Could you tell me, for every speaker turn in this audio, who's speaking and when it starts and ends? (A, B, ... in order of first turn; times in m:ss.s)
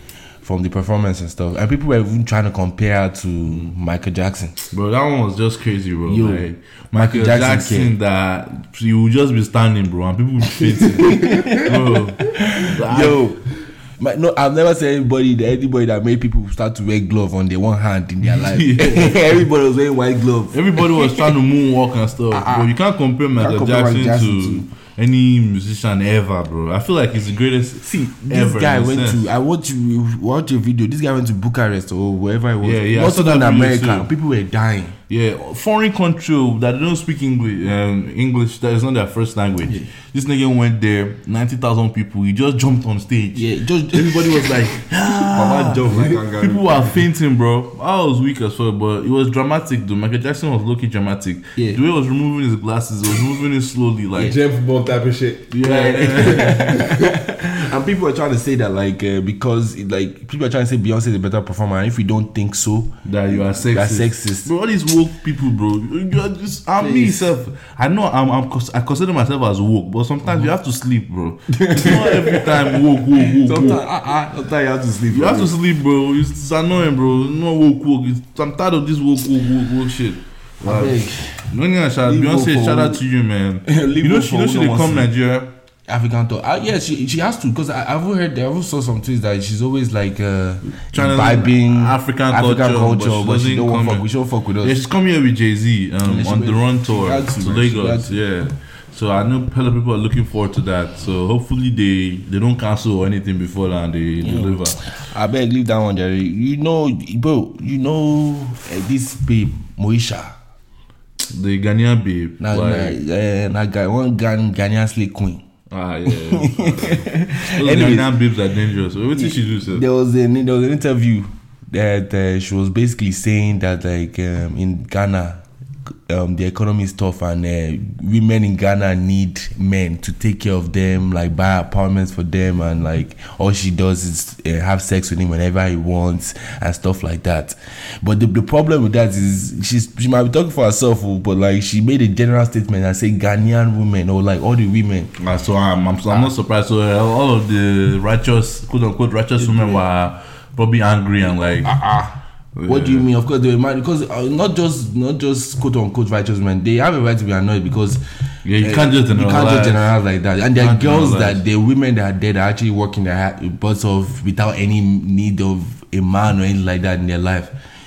0:00.4-0:04.7 A
0:04.7-0:13.2 B
0:06.1-0:07.9 A
0:10.7-0:13.5 A
0:14.0-0:21.3 A
0:18.2-0:19.4 B
0:20.5-0:29.3 B
0:22.3-0:22.7 A
0:23.4-0:24.7 A
0:27.8-0:35.0 A
0:32.6-0:34.1 B
0:35.1-0:54.4 B
0:43.4-0:47.0 A
0:54.2-0:55.5 C
0:55.5-0:56.9 B
0:55.6-1:04.5 A
0:56.2-0:57.0 C
1:03.0-1:13.8 B
1:06.8-1:07.3 A
1:11.6-1:15.5 A
1:15.1-1:25.5 B
1:20.6-1:21.5 A
1:22.0-1:23.0 A
1:23.7-1:25.1 A
1:25.9-1:34.8 A
1:30.9-1:34.1 B
1:34.6-1:44.8 B
1:36.0-1:38.2 A
1:44.2-1:50.4 A
1:51.3-1:53.0 B
1:52.4-1:55.4 A
1:55.7-1:59.8 B
1:56.1-1:58.1 A
1:59.1-2:05.4 A
2:06.1-2:25.1 A
2:25.2-2:31.7 B
2:29.4-2:29.8 A
2:31.6-2:38.0 A
2:32.6-2:33.1 B
2:38.4-2:39.9 B
2:38.6-2:47.5 A
2:40.6-2:41.4 B